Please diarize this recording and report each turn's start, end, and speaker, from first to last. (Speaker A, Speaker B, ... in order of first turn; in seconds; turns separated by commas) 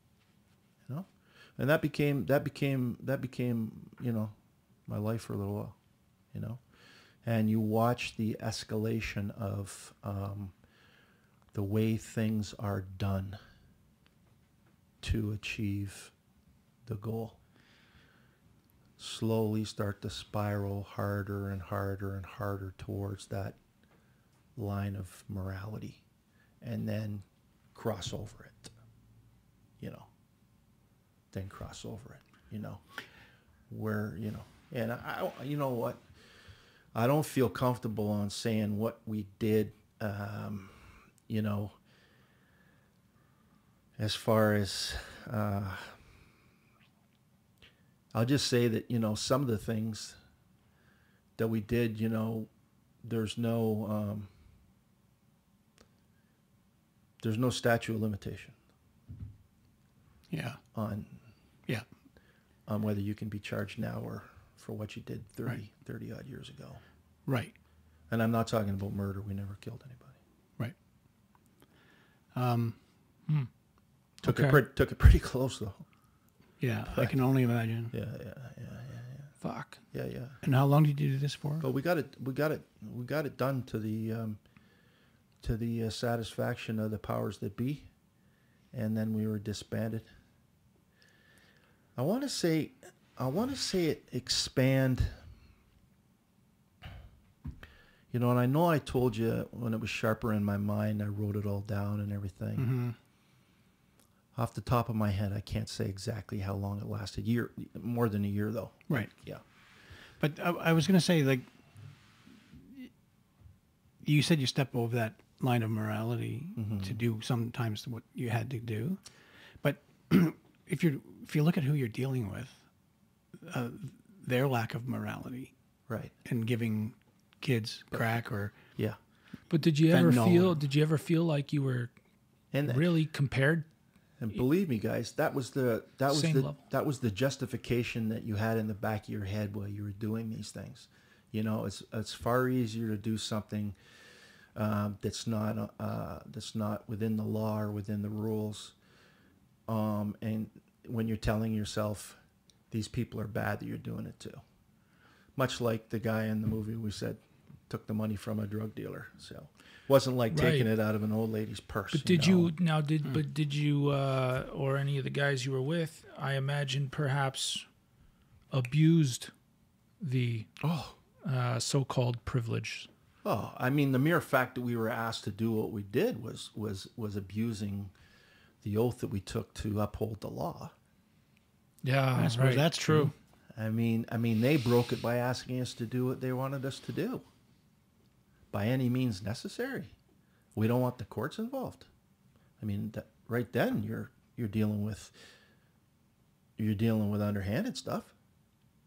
Speaker A: 0.9-4.3, Speaker A: 4.9-5.8, Speaker A: 6.3-6.6, Speaker A: 7.2-10.5, Speaker A: 11.5-13.4, Speaker A: 15.0-16.1, Speaker A: 16.9-17.4, Speaker A: 19.0-23.6, Speaker A: 24.6-26.0, Speaker A: 26.6-28.7, Speaker A: 29.8-30.1, Speaker A: 31.3-32.8, Speaker A: 33.7-36.0, Speaker A: 37.0-41.7, Speaker A: 44.0-46.0, Speaker A: 48.1-50.2, Speaker A: 51.4-52.5, Speaker A: 53.0-54.3, Speaker A: 57.2-58.6, Speaker B: 60.3-60.6, Speaker A: 60.7-61.2, Speaker A: 62.7-66.8, Speaker B: 67.3-67.5, Speaker A: 68.1-70.2, Speaker B: 72.3-72.8, Speaker C: 74.2-74.6, Speaker A: 74.2-75.8, Speaker B: 76.6-77.9, Speaker A: 77.9-79.3, Speaker C: 79.4-79.8, Speaker A: 79.9-80.4, Speaker B: 80.4-81.7, Speaker A: 81.6-84.4, Speaker A: 85.4-87.9, Speaker A: 88.7-90.1, Speaker A: 92.0-95.2, Speaker A: 98.1-102.7, Speaker B: 102.6-103.0, Speaker A: 104.3-109.4, Speaker B: 110.2-111.5, Speaker B: 114.0-119.0, Speaker A: 116.6-117.0, Speaker B: 119.6-122.6, Speaker B: 123.4-125.5, Speaker A: 125.9-126.1, Speaker B: 126.2-128.6, Speaker C: 129.5-131.9, Speaker B: 129.9-130.6, Speaker A: 132.5-132.9, Speaker C: 132.7-133.7, Speaker A: 134.2-143.8, Speaker C: 136.1-136.6, Speaker A: 144.6-148.8, Speaker A: 149.7-152.2, Speaker A: 152.7-154.4, Speaker A: 155.4-162.5, Speaker C: 160.3-160.7, Speaker C: 161.9-167.7, Speaker C: 168.5-169.3, Speaker C: 170.0-170.5, Speaker A: 170.6-171.0, Speaker C: 171.2-172.9, Speaker A: 173.2-177.9, Speaker A: 178.6-180.7, Speaker C: 181.8-183.1, Speaker B: 182.2-183.1, Speaker A: 183.6-187.2, Speaker A: 188.5-189.9, Speaker A: 190.6-191.9, Speaker A: 192.6-195.1, Speaker A: 196.6-198.1